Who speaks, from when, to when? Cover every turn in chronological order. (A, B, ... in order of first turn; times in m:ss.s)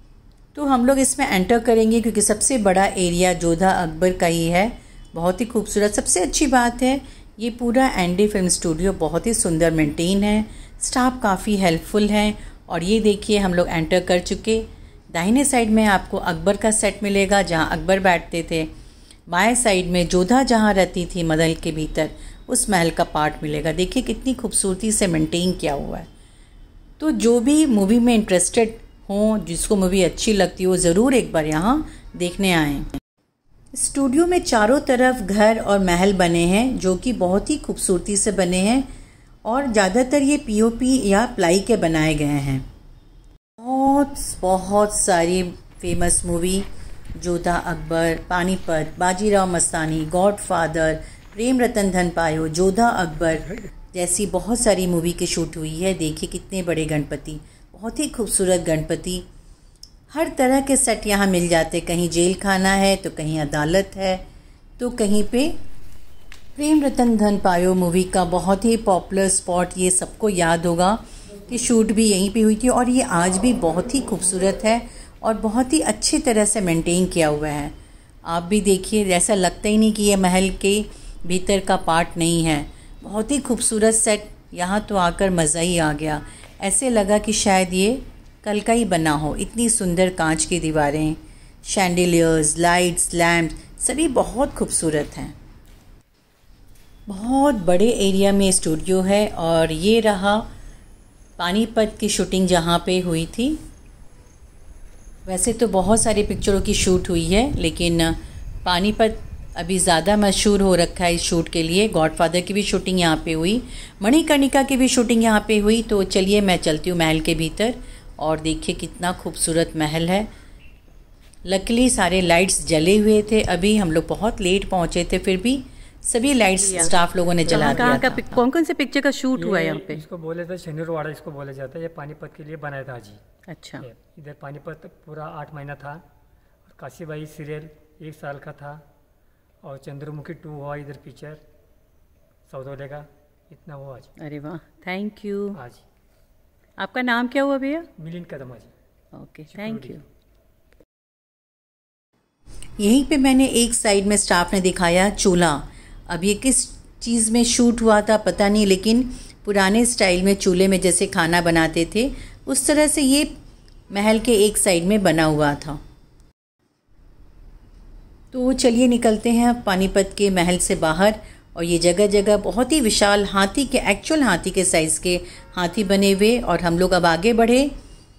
0:00.6-0:18.7 A
0:19.3-0:26.1 A
0:27.0-0:32.9 A
0:33.7-0:38.9 A
0:39.4-0:42.6 A
0:43.6-0:46.7 A
0:47.2-0:59.2 A
1:00.1-1:04.2 A
1:04.8-1:05.5 A
1:06.6-1:17.7 A
1:18.3-1:35.3 A
1:37.1-1:40.5 A
1:41.4-1:43.6 A
1:45.3-2:00.3 A
2:01.5-2:08.4 A
2:07.5-2:10.0 B
2:07.5-2:08.0 C
2:09.4-2:13.2 C
2:13.5-2:13.9 B
2:13.8-2:16.0 C
2:16.7-2:18.8 C
2:19.6-2:21.4 C
2:22.5-2:24.1 C
2:24.2-2:25.6 B
2:25.5-2:25.8 C
2:26.8-2:27.9 B
2:28.0-2:28.7 C
2:29.2-2:30.0 B
2:29.5-2:30.0 C
2:32.8-2:43.3 A
2:43.9-2:45.8 A
2:48.3-2:57.7 A